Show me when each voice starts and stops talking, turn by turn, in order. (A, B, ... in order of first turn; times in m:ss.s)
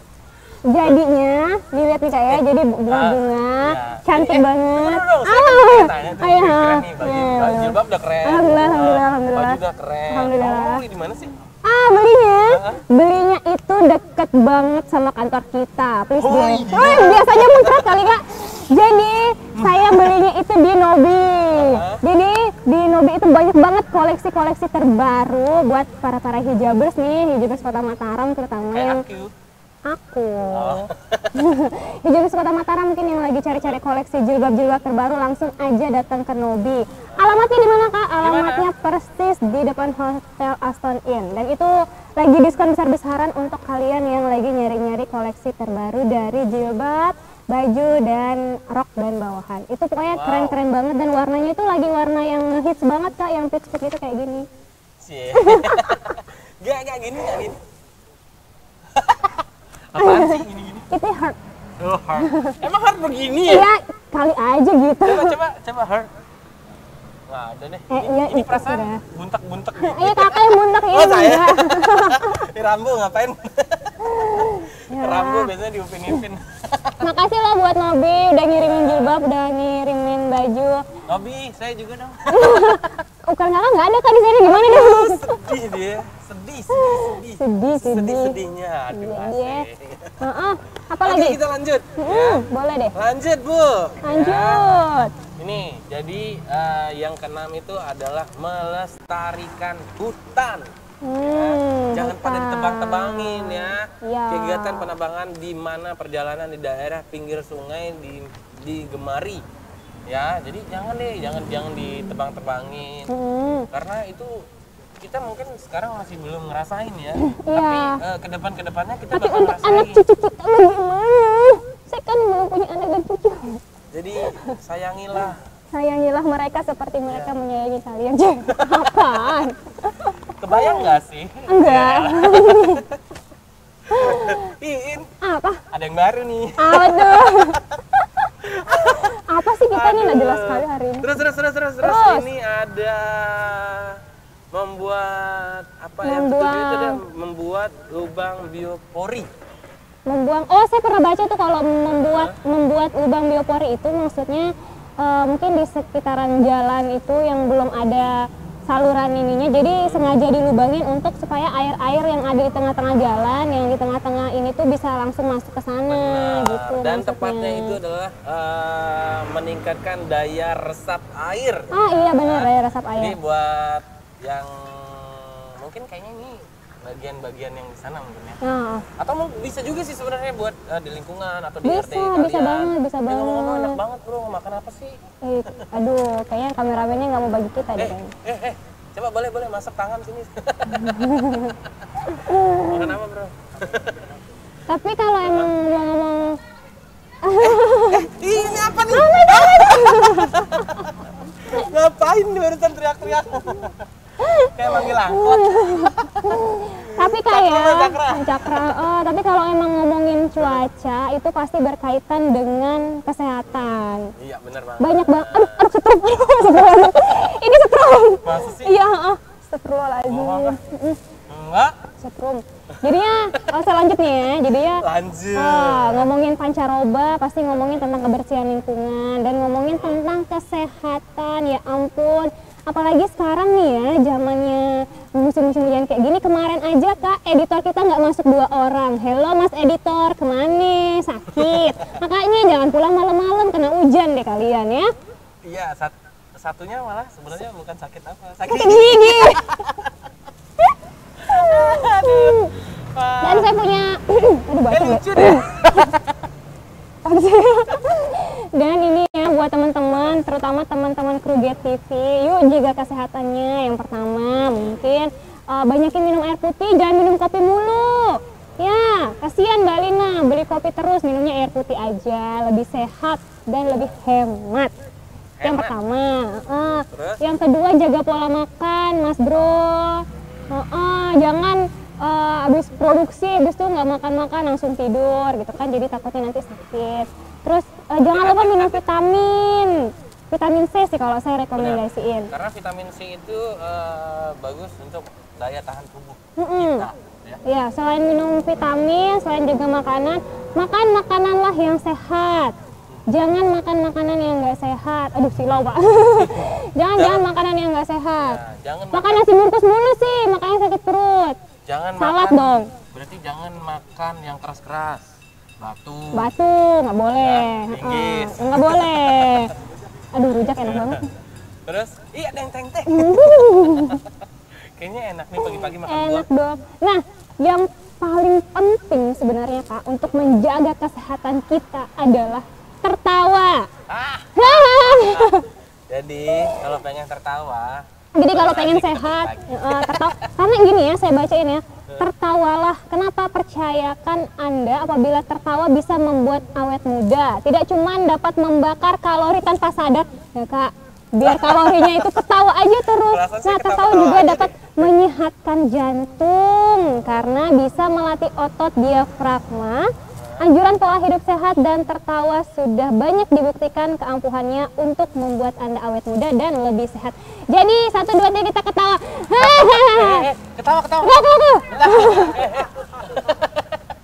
0:00.7-0:10.8 A
0:02.3-0:11.4 B
0:11.6-0:29.0 A
0:12.5-0:12.8 B
0:16.2-0:18.0 B
0:19.6-0:20.2 B
0:21.5-0:22.0 B
0:28.7-0:29.3 B
0:29.9-0:54.5 A
0:30.5-0:31.4 B
0:37.1-0:37.4 B
0:38.2-0:38.7 B
0:50.1-0:50.6 B
0:55.0-0:57.6 B
0:55.4-0:55.8 A
0:58.9-1:00.9 B
1:00.0-1:00.4 A
1:00.9-1:01.4 A
1:01.8-1:03.7 B
1:02.2-1:02.5 A
1:03.5-1:05.3 A
1:05.0-1:06.1 B
1:07.3-1:17.0 B
1:07.9-1:09.0 A
1:09.8-1:12.4 A
1:14.1-1:15.5 A
1:17.0-1:20.8 A
1:18.5-1:19.2 B
1:21.1-1:22.9 B
1:22.3-1:25.2 A
1:24.4-1:30.1 B
1:26.8-1:28.4 A
1:28.9-1:29.6 A
1:30.2-1:31.4 A
1:31.0-1:32.4 B
1:32.0-1:32.9 A
1:33.0-1:34.6 B
1:34.0-1:35.1 A
1:35.4-1:49.4 B
1:41.0-1:44.9 A
1:50.1-1:53.1 B
1:53.1-1:53.7 A
1:53.7-1:54.4 B
1:55.0-2:00.0 B
1:57.2-1:58.0 A
1:59.1-2:03.6 A
2:03.9-2:05.4 B
2:05.7-2:11.0 A
2:07.1-2:07.3 B
2:08.6-2:09.4 B
2:10.4-2:13.0 B
2:11.5-2:12.8 A
2:13.9-2:15.1 B
2:13.9-2:14.4 A
2:15.2-2:15.6 A
2:15.7-2:17.6 B
2:16.6-2:17.6 A
2:18.4-2:24.0 B
2:19.1-2:21.1 A
2:21.8-2:22.3 A
2:24.5-2:29.3 B
2:26.0-2:27.0 A
2:30.1-2:34.5 A
2:31.9-2:32.4 B
2:35.0-2:38.1 A
2:38.7-2:47.8 A
2:39.7-2:40.1 B
2:45.9-2:58.4 B
2:51.7-2:53.2 A
2:58.4-2:58.9 A
2:59.0-3:05.6 B
3:01.6-3:03.8 A
3:05.2-3:08.1 A
3:07.8-3:11.0 B
3:10.7-3:11.6 A
3:12.1-3:12.9 A
3:12.6-3:14.1 B
3:14.7-3:16.4 A
3:17.2-3:18.1 A
3:17.4-3:20.9 B
3:18.9-3:20.5 A
3:21.4-3:23.8 B
3:24.2-3:34.1 A
3:24.6-3:26.4 B
3:27.0-3:28.7 B
3:30.4-3:30.6 B
3:33.5-3:35.7 B
3:34.8-3:41.0 A
3:36.3-3:37.2 B
3:38.2-3:38.8 B
3:40.1-3:40.6 B
3:41.3-3:41.8 B
3:42.0-3:44.8 A
3:44.8-3:46.1 B
3:45.4-4:04.9 A
3:49.7-3:50.0 B
4:05.4-4:09.9 B
4:08.5-4:09.4 A
4:11.2-4:13.5 B
4:11.3-4:12.5 A
4:13.2-4:15.4 A
4:14.7-4:16.1 B
4:17.0-4:34.7 A
4:35.4-4:35.8 B
4:35.4-4:52.3 A
4:36.9-4:37.2 B
4:40.2-4:40.5 B
4:48.1-4:48.8 B
4:51.6-4:57.4 B
4:56.4-4:56.9 A
4:57.5-5:02.5 A
5:03.1-5:08.4 A
5:06.2-5:07.3 B
5:08.2-5:09.3 B
5:08.9-5:11.4 A
5:11.7-5:15.1 B
5:12.0-5:12.7 A
5:15.6-5:16.3 B
5:16.1-5:19.5 A
5:17.2-5:19.6 B
5:20.2-5:21.0 A
5:20.6-5:21.0 B
5:21.7-5:24.0 B
5:22.9-5:24.0 A
5:24.8-5:26.3 B
5:25.4-5:33.6 A
5:33.9-5:40.1 B
5:34.4-5:35.4 A
5:38.2-5:59.9 A
5:51.2-5:52.1 B
5:53.0-5:54.8 B
6:00.2-6:00.4 B
6:00.4-6:10.3 A
6:09.4-6:13.6 B
6:11.0-6:12.4 A